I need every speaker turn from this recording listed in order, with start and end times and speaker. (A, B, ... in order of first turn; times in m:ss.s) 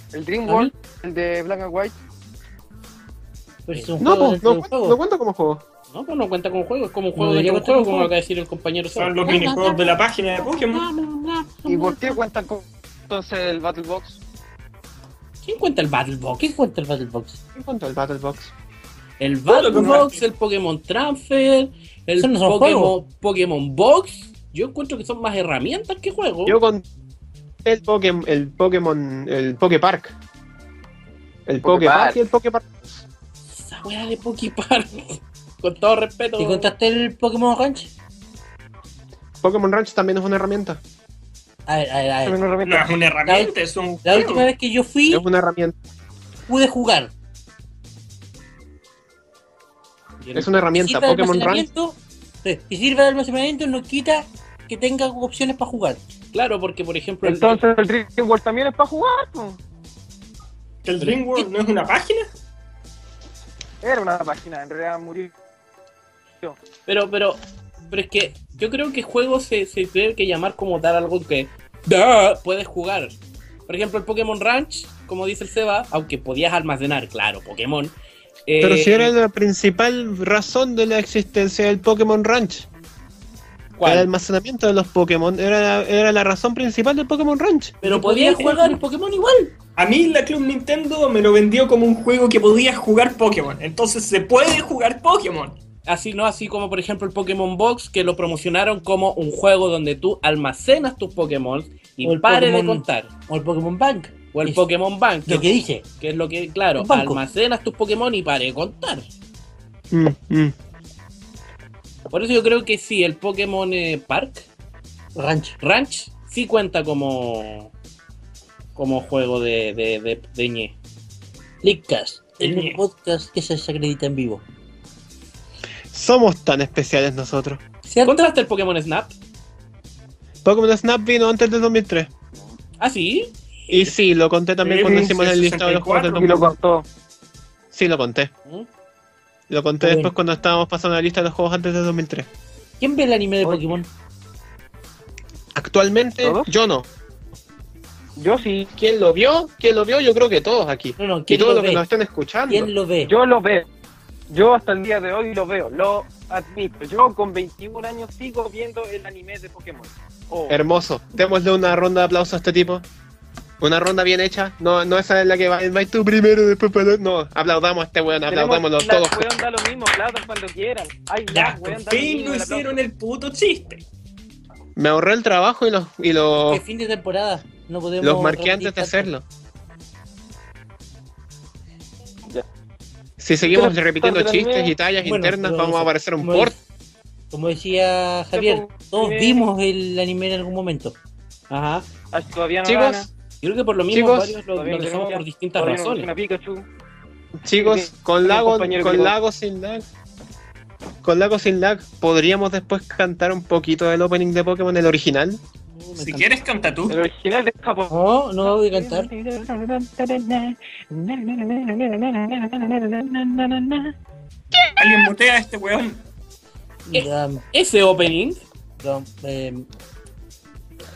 0:00.1-0:01.9 A
0:03.7-0:05.0 B
0:04.0-0:05.6 C
0:05.9-0:09.2 D
0:07.2-0:08.1 B
0:08.9-0:10.9 E
0:09.2-0:12.2 B
0:11.7-0:14.2 A
0:15.4-0:16.6 D
0:16.4-0:17.4 B
0:17.6-0:18.5 C
0:19.2-0:26.6 D
0:19.5-0:20.2 E
0:22.2-0:23.0 B
0:26.5-0:26.8 C
0:27.6-0:30.2 C
0:31.5-0:33.0 C
0:31.6-0:32.2 A
0:33.5-0:36.7 D
0:36.4-0:37.9 B
0:39.4-0:40.8 C
0:41.7-0:42.4 B
0:42.2-0:42.9 A
0:42.6-0:44.5 E
0:43.3-0:45.2 B
0:45.1-0:45.8 C
0:46.5-0:47.1 B
0:50.2-0:50.5 D
0:50.4-0:51.7 C
0:50.8-0:56.0 B
0:56.3-0:57.6 D
0:57.2-0:59.6 A
1:00.8-1:02.3 E
1:03.8-1:05.3 A
1:06.9-1:18.0 D
1:18.5-1:19.1 D
1:18.6-1:22.7 C
1:23.8-1:24.1 D
1:23.8-1:27.8 C
1:27.8-1:29.5 D
1:27.8-1:28.8 B
1:29.8-1:35.6 E
1:35.9-1:43.1 D
1:42.0-1:44.7 B
1:44.3-1:49.1 D
1:45.3-1:45.8 B
1:46.8-1:47.2 B
1:49.9-1:50.5 C
1:52.1-1:54.5 D
1:55.2-1:55.6 B
1:55.6-1:57.7 D
1:58.8-2:00.8 D
2:01.6-2:04.4 B
2:02.4-2:02.8 E
2:05.9-2:07.6 C
2:07.9-2:08.3 B
2:08.0-2:09.1 D
2:10.4-2:12.1 C
2:12.8-2:13.9 D
2:13.7-2:16.5 C
2:14.6-2:16.4 E
2:14.8-2:15.1 A
2:16.1-2:16.9 A
2:17.7-2:18.3 C
2:19.5-2:22.3 C
2:19.8-2:20.1 B
2:22.8-2:23.9 B
2:23.4-2:23.8 A
2:25.6-2:26.9 C
2:26.2-2:26.5 A
2:28.2-2:28.7 A
2:28.8-2:32.7 C
2:31.0-2:31.8 B
2:32.5-2:33.1 B
2:33.1-2:33.7 A
2:34.3-2:40.6 A
2:40.5-2:42.9 C
2:43.6-2:49.3 C
2:48.3-2:52.8 A
2:51.3-2:53.8 E
2:54.8-2:56.6 C
2:56.4-2:59.1 B
2:58.0-2:59.2 C
3:03.2-3:06.6 C
3:03.5-3:04.7 A
3:05.0-3:06.6 B
3:07.3-3:11.0 B
3:08.3-3:09.5 A
3:11.5-3:11.9 D
3:12.1-3:13.1 A
3:12.6-3:13.1 C
3:13.4-3:16.1 D
3:13.9-3:14.4 C
3:14.6-3:16.6 A
3:17.4-3:19.8 C
3:17.6-3:19.1 A
3:21.0-3:25.4 C
3:25.8-3:26.4 D
3:26.0-3:27.0 E
3:26.9-3:27.9 A
3:27.9-3:29.1 B
3:28.4-3:33.9 A
3:34.8-3:36.1 E
3:36.9-3:37.4 B
3:36.9-3:38.4 D
3:38.8-3:39.7 B